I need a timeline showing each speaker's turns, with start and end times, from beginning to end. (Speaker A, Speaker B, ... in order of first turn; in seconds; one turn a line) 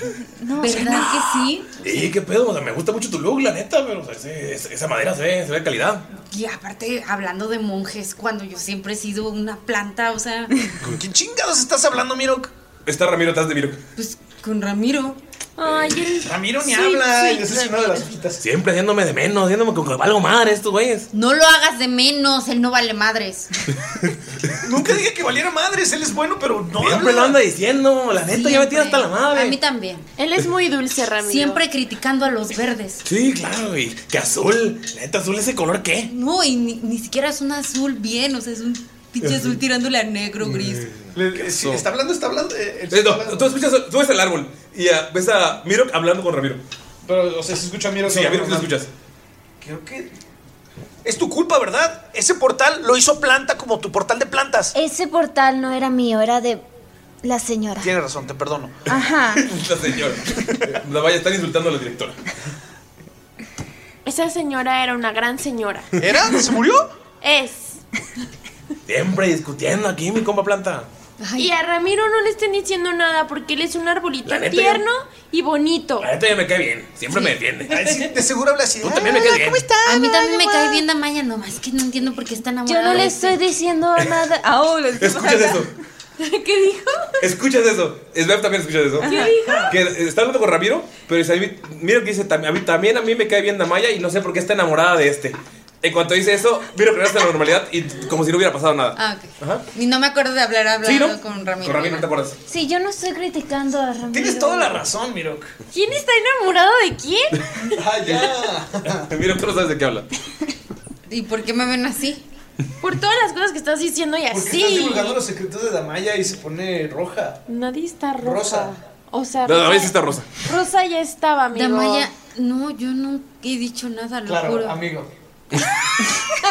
Speaker A: 0.4-1.5
Speaker B: 0.6-1.8
Speaker C: 1.8-6.0
Speaker B: 6.2-10.7
Speaker D: 10.8-12.5
Speaker C: 12.8-13.8
Speaker B: 13.9-15.2
Speaker E: 15.6-18.1
Speaker C: 15.6-16.0
Speaker D: 16.2-18.4
Speaker C: 18.4-21.1
Speaker B: 21.1-23.5
Speaker C: 24.0-24.5
Speaker D: 24.6-27.4
Speaker C: 26.8-29.6
Speaker B: 28.3-30.1
Speaker E: 30.2-31.6
Speaker B: 31.2-33.0
Speaker C: 33.0-36.1
Speaker B: 36.1-40.9
Speaker C: 39.2-39.5
Speaker C: 40.5-41.9
Speaker D: 41.1-43.5
Speaker C: 42.9-46.6
Speaker D: 47.0-48.7
Speaker C: 48.0-48.9
Speaker D: 49.6-50.1
Speaker D: 51.0-54.7
Speaker A: 54.7-56.6
Speaker A: 57.2-57.9
Speaker D: 57.8-58.7
Speaker A: 58.9-59.4
Speaker C: 59.4-62.2
Speaker E: 64.0-65.9
Speaker D: 66.0-66.9
Speaker E: 67.2-67.8
Speaker C: 68.8-70.9
Speaker B: 71.2-71.5
Speaker E: 71.4-76.1
Speaker C: 74.2-74.8
Speaker C: 76.0-78.1
Speaker D: 77.7-80.3
Speaker C: 78.8-79.7
Speaker B: 79.8-83.3
Speaker E: 80.2-80.7
Speaker A: 82.7-85.7
Speaker C: 85.0-85.7
Speaker E: 86.2-87.2
Speaker C: 87.2-99.7
Speaker E: 89.0-89.8
Speaker B: 99.0-102.1
Speaker C: 100.8-102.4
Speaker A: 102.5-104.8
Speaker D: 104.1-105.5
Speaker E: 105.7-107.8
Speaker D: 107.7-109.1
Speaker C: 108.9-110.1
Speaker B: 111.1-112.2
Speaker E: 112.8-115.2
Speaker D: 114.3-117.4
Speaker E: 117.5-122.1
Speaker D: 118.2-118.7
Speaker C: 119.4-120.3
Speaker B: 121.5-124.8
Speaker D: 124.2-125.1